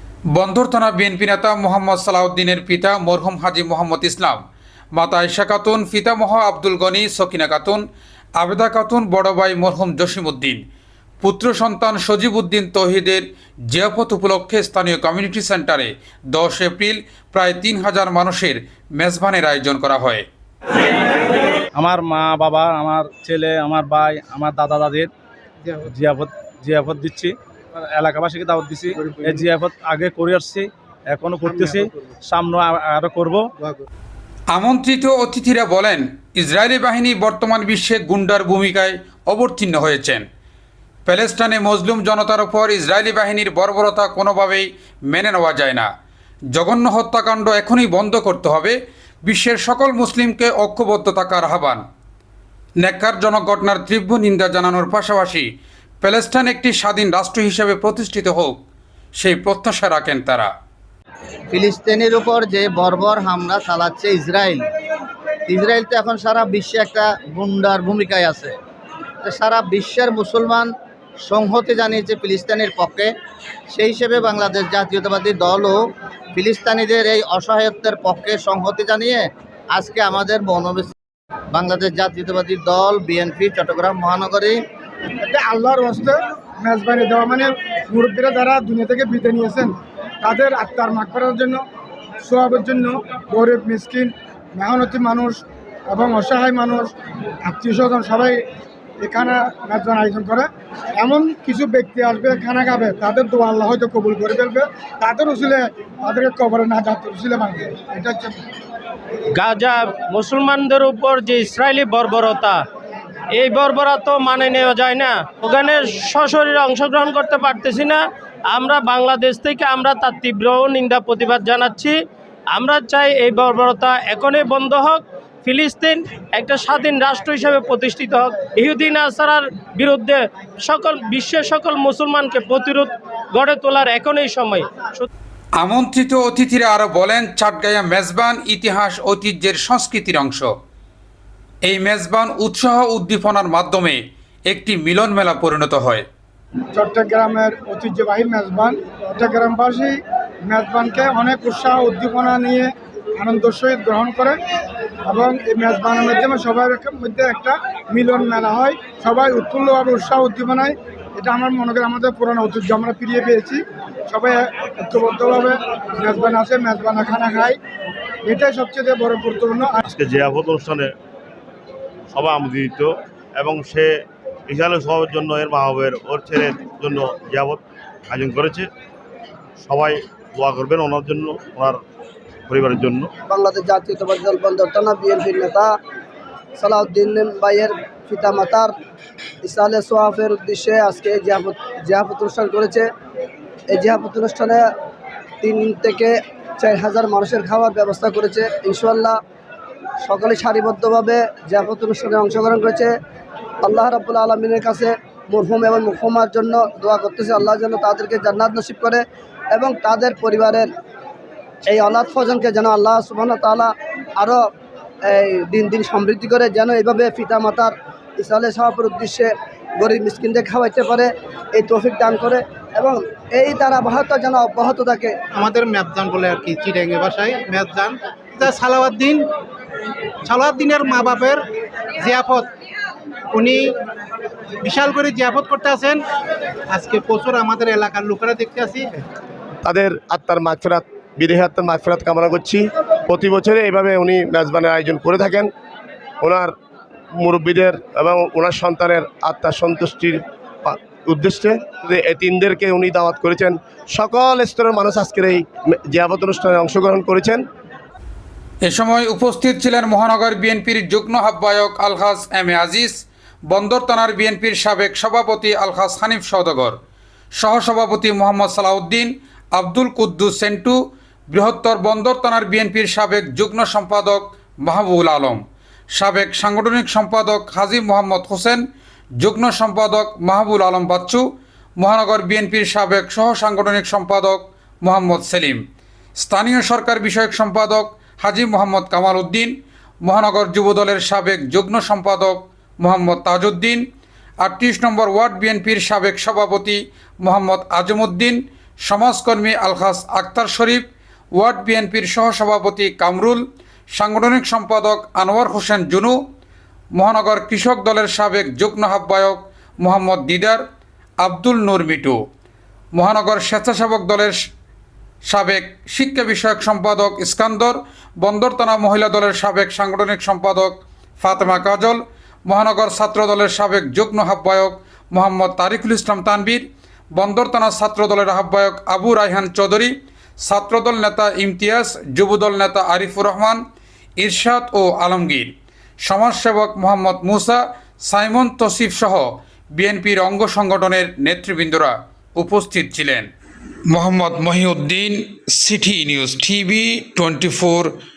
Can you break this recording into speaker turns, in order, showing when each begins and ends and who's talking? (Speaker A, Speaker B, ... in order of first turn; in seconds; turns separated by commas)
Speaker A: 0.3-4.4, Speaker A: 4.9-7.8, Speaker A: 8.4-10.6, Speaker A: 11.2-20.2, Speaker B: 21.8-25.1, Speaker C: 25.6-25.9, Speaker B: 26.0-27.3, Speaker B: 27.9-33.4, Speaker C: 29.1-29.4, Speaker C: 31.4-31.9, Speaker C: 33.6-33.9, Speaker A: 34.5-40.2, Speaker A: 41.0-45.9, Speaker A: 46.5-51.8, Speaker A: 52.8-55.5, Speaker A: 56.0-58.6, Speaker A: 59.1-60.5, Speaker D: 61.5-64.6, Speaker D: 65.5-68.5, Speaker D: 69.2-70.7, Speaker D: 71.2-73.1, Speaker D: 73.7-75.8, Speaker D: 76.3-80.9, Speaker D: 81.5-84.6, Speaker E: 85.2-91.6, Speaker E: 92.2-96.9, Speaker E: 97.4-98.4, Speaker E: 99.0-108.4, Speaker F: 109.4-112.6, Speaker F: 113.3-121.9, Speaker F: 122.5-135.1, Speaker A: 135.6-140.5, Speaker A: 141.6-146.1, Speaker E: 146.7-154.4, Speaker E: 155.1-167.6, Speaker E: 168.2-169.8, Speaker G: 169.9-170.9, Speaker G: 172.1-173.9, Speaker G: 174.5-178.6, Speaker G: 179.6-181.8, Speaker G: 182.5-183.1, Speaker H: 183.3-185.7, Speaker H: 186.6-188.7, Speaker H: 189.4-192.8, Speaker H: 193.7-194.6, Speaker H: 195.4-199.2, Speaker H: 200.0-202.9, Speaker H: 203.6-210.7, Speaker H: 211.7-214.4, Speaker H: 215.1-225.1, Speaker C: 225.3-229.3, Speaker C: 230.2-232.5, Speaker C: 233.3-233.7, Speaker C: 234.6-236.0, Speaker C: 236.7-239.0, Speaker I: 239.6-245.5, Speaker I: 246.2-246.5, Speaker I: 247.2-257.4, Speaker A: 258.6-266.8, Speaker A: 267.4-270.8, Speaker A: 271.3-275.4, Speaker A: 275.9-278.6, Speaker A: 279.2-281.2, Speaker A: 281.8-285.6, Speaker A: 286.2-293.8, Speaker A: 294.4-306.2, Speaker A: 306.9-310.6, Speaker A: 311.2-312.2, Speaker A: 312.9-314.4, Speaker A: 315.2-333.6, Speaker A: 334.2-335.5, Speaker A: 336.0-343.3, Speaker A: 343.9-347.9